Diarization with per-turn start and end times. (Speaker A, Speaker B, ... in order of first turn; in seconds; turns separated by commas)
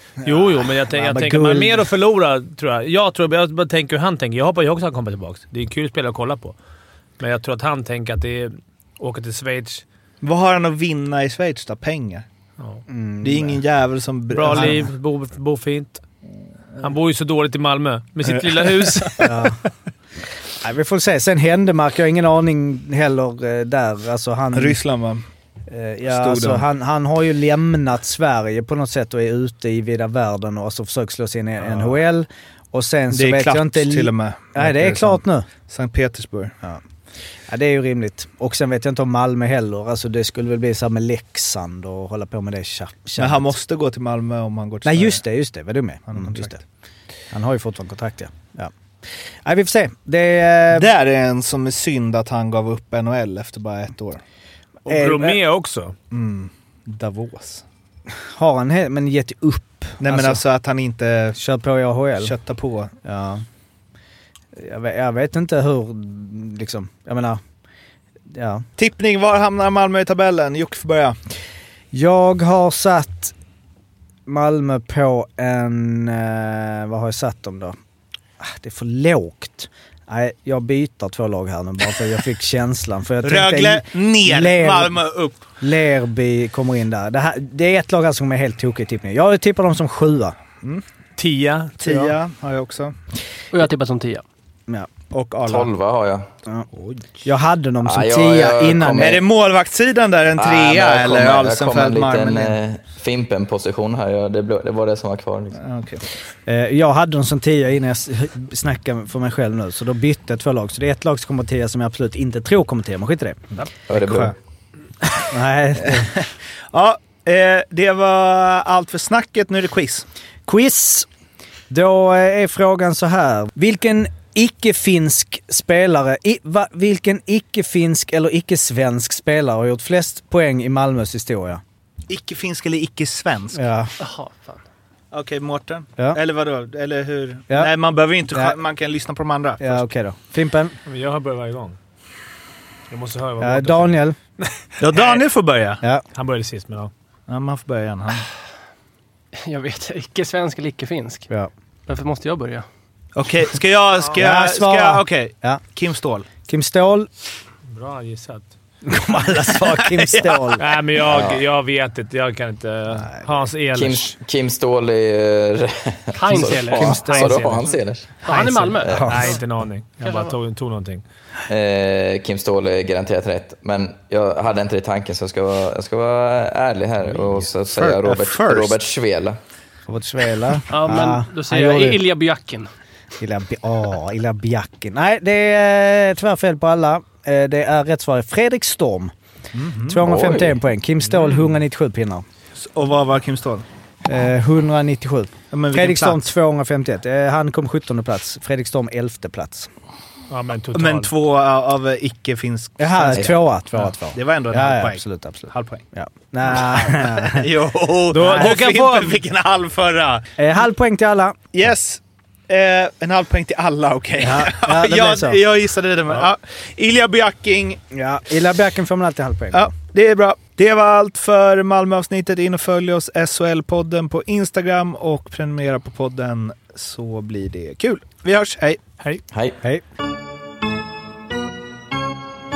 Speaker A: 0.2-6.5, Speaker B: 0.2-1.9, Speaker A: 7.2-9.8, Speaker C: 10.2-12.2, Speaker B: 12.9-13.6, Speaker C: 13.2-14.8, Speaker A: 14.3-16.0, Speaker B: 14.5-14.8, Speaker A: 16.8-19.5, Speaker B: 19.2-19.6, Speaker B: 20.6-24.8, Speaker C: 24.5-25.2, Speaker B: 25.7-35.5, Speaker C: 26.0-26.6, Speaker C: 33.1-36.5, Speaker B: 37.5-43.5, Speaker C: 43.2-45.2, Speaker B: 44.8-46.6, Speaker C: 46.1-46.5, Speaker B: 47.3-48.7, Speaker B: 49.4-50.9, Speaker C: 50.7-54.2, Speaker A: 54.9-55.9, Speaker B: 54.9-55.4, Speaker C: 56.1-57.6, Speaker B: 58.3-60.4, Speaker C: 60.0-61.4, Speaker B: 61.4-62.3, Speaker C: 62.2-62.9, Speaker B: 63.0-63.4, Speaker B: 64.5-67.4, Speaker B: 68.3-68.6, Speaker C: 68.8-71.1, Speaker B: 71.9-73.3, Speaker B: 74.3-77.8, Speaker B: 78.4-85.0, Speaker C: 83.2-85.4, Speaker B: 85.6-90.3, Speaker A: 91.2-92.2, Speaker C: 91.8-92.9, Speaker D: 93.5-94.2, Speaker C: 95.1-95.7, Speaker E: 95.5-96.2, Speaker C: 96.7-97.1, Speaker B: 97.2-99.2, Speaker E: 97.8-99.2, Speaker C: 98.9-102.6, Speaker E: 100.4-105.6, Speaker C: 105.5-106.0, Speaker B: 106.5-114.3, Speaker E: 113.9-114.3, Speaker B: 115.0-116.2, Speaker C: 116.7-120.0, Speaker B: 120.5-121.1, Speaker B: 121.7-131.6, Speaker C: 132.1-133.6, Speaker B: 133.5-133.9, Speaker D: 134.0-134.6, Speaker C: 135.1-139.8, Speaker B: 139.6-140.8, Speaker A: 140.8-141.8, Speaker A: 142.9-145.2, Speaker B: 143.4-144.2, Speaker C: 144.8-145.8, Speaker A: 146.1-146.9, Speaker C: 147.3-148.2, Speaker D: 149.4-151.3, Speaker D: 151.9-152.7, Speaker C: 153.1-156.3, Speaker B: 154.1-155.6, Speaker B: 156.4-157.1, Speaker A: 157.7-158.5, Speaker B: 158.8-160.6, Speaker C: 159.8-160.5, Speaker A: 160.6-164.1, Speaker E: 161.1-161.4, Speaker E: 163.7-168.2, Speaker D: 166.1-167.0, Speaker A: 166.3-167.7, Speaker B: 166.7-167.6, Speaker D: 168.2-169.4, Speaker A: 168.2-171.0, Speaker E: 168.8-169.1, Speaker B: 168.8-169.4, Speaker D: 170.0-170.3, Speaker E: 171.5-179.4, Speaker C: 177.7-178.8, Speaker B: 179.9-182.0, Speaker D: 180.7-182.7, Speaker B: 183.2-189.1, Speaker C: 189.5-190.0, Speaker B: 189.9-192.2, Speaker E: 190.0-190.6, Speaker A: 191.0-191.5, Speaker C: 192.6-193.6, Speaker B: 194.1-199.7, Speaker C: 195.5-196.2, Speaker A: 200.3-201.1, Speaker C: 200.7-203.4, Speaker B: 202.8-207.4, Speaker C: 204.1-205.8, Speaker C: 206.5-210.2, Speaker A: 208.1-209.2, Speaker B: 208.1-208.5, Speaker B: 210.4-211.4, Speaker C: 211.5-217.8, Speaker B: 214.2-215.4, Speaker B: 217.9-219.7, Speaker C: 219.5-228.8